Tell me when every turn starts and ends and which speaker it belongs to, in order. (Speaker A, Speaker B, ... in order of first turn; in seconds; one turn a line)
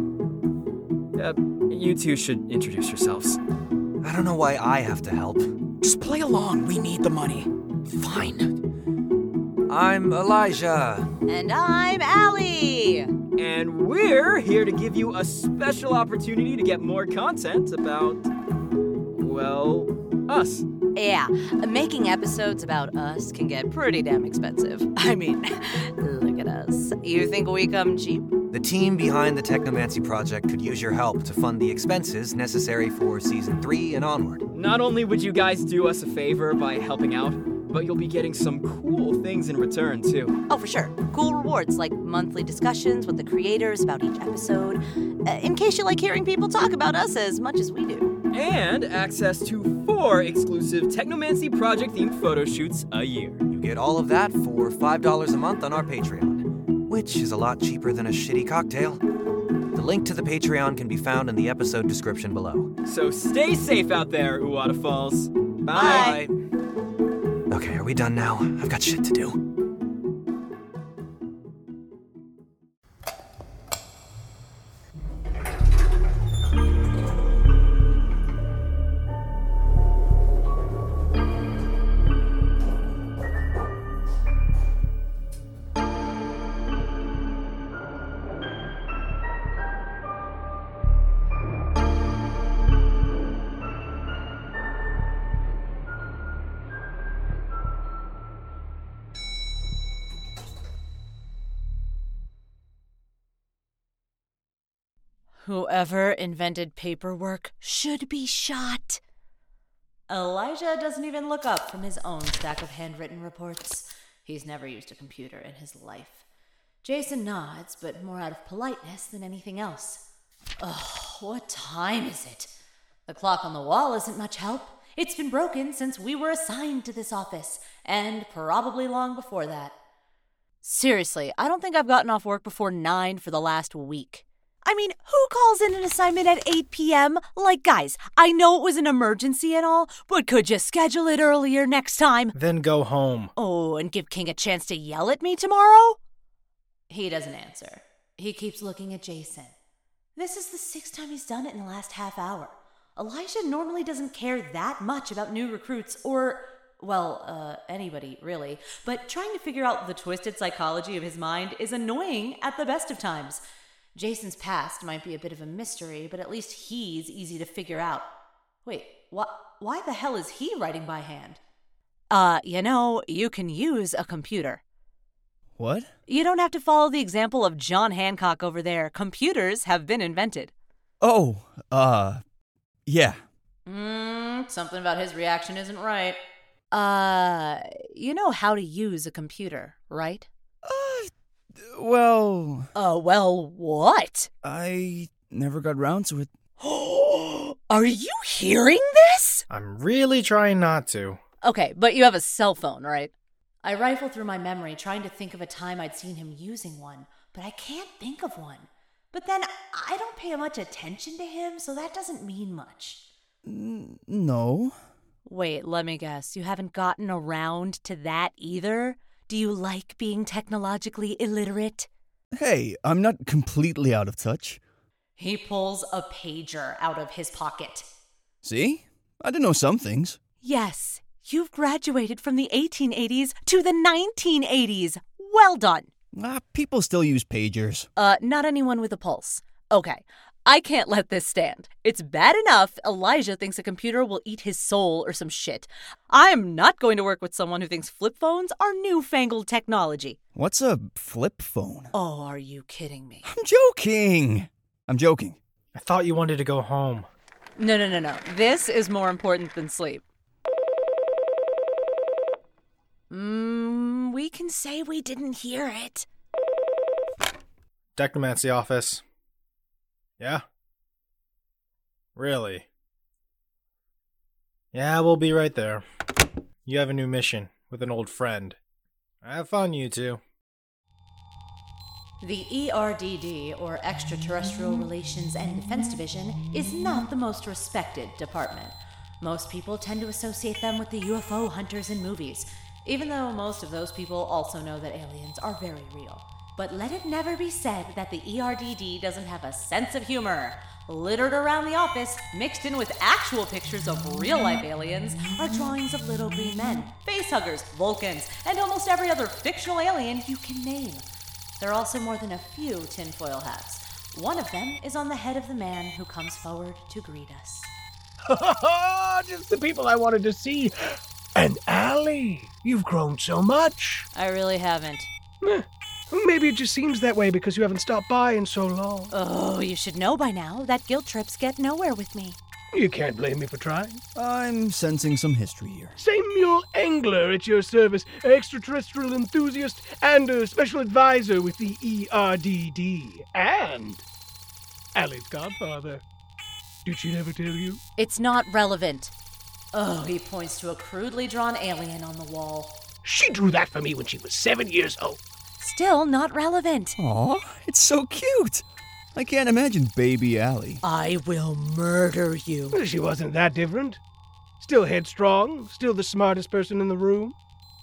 Speaker A: 1.3-3.4
Speaker B: 4.0-5.6
Speaker C: 5.8-8.5
Speaker B: 8.0-8.3
Speaker B: 9.7-11.1
Speaker D: 11.3-13.1
Speaker A: 13.4-18.3
Speaker A: 19.1-20.6
Speaker D: 20.9-28.3
Speaker B: 28.5-34.5
Speaker A: 34.5-40.3
Speaker D: 40.5-48.1
Speaker A: 48.3-53.4
Speaker B: 53.5-59.0
Speaker B: 59.7-62.7
Speaker A: 62.9-65.3
Speaker B: 65.7-66.3
Speaker D: 65.7-66.2
Speaker E: 65.8-66.0
Speaker B: 67.5-69.4
Speaker D: 105.4-109.0
Speaker D: 110.1-116.2
Speaker D: 116.8-120.0
Speaker D: 120.6-122.5
Speaker D: 123.1-129.8
Speaker D: 130.6-142.3
Speaker F: 142.3-143.3
Speaker D: 143.4-146.0
Speaker D: 146.9-149.5
Speaker D: 150.2-163.4
Speaker D: 163.9-168.1
Speaker D: 168.7-171.4
Speaker D: 172.1-174.6
Speaker E: 175.6-175.9
Speaker D: 176.1-180.5
Speaker E: 181.0-182.2
Speaker E: 182.9-183.2
Speaker D: 183.7-186.2
Speaker D: 186.7-190.3
Speaker E: 190.6-192.7
Speaker D: 192.8-194.3
Speaker E: 194.4-196.3
Speaker D: 196.6-199.4
Speaker F: 199.5-201.2
Speaker D: 201.4-203.1
Speaker D: 203.6-213.0
Speaker E: 213.4-214.8
Speaker D: 215.3-221.9
Speaker E: 222.3-224.6
Speaker D: 225.2-227.9
Speaker E: 228.4-230.2
Speaker D: 230.4-235.9
Speaker E: 236.1-237.9
Speaker D: 238.0-250.2
Speaker E: 250.3-251.9
Speaker D: 251.9-253.3
Speaker E: 253.3-255.4
Speaker F: 255.7-257.1
Speaker D: 257.6-260.0
Speaker D: 263.1-266.1
Speaker F: 268.0-269.0
Speaker F: 270.2-270.4
Speaker F: 272.2-272.7
Speaker F: 274.7-275.8
Speaker F: 276.7-278.6
Speaker F: 279.2-280.2
Speaker D: 282.2-311.0
Speaker D: 311.6-317.7
Speaker G: 318.3-324.1
Speaker D: 324.1-325.1
Speaker G: 325.4-329.1
Speaker D: 329.1-332.4
Speaker G: 332.7-334.0
Speaker E: 334.1-336.0
Speaker G: 336.0-344.0
Speaker G: 344.9-346.0
Speaker G: 346.9-347.8
Speaker D: 348.0-349.1
Speaker D: 349.7-352.8
Speaker G: 353.0-355.2
Speaker D: 355.6-357.0
Speaker E: 357.0-360.8
Speaker D: 360.8-362.8
Speaker G: 362.7-364.0
Speaker G: 364.6-367.4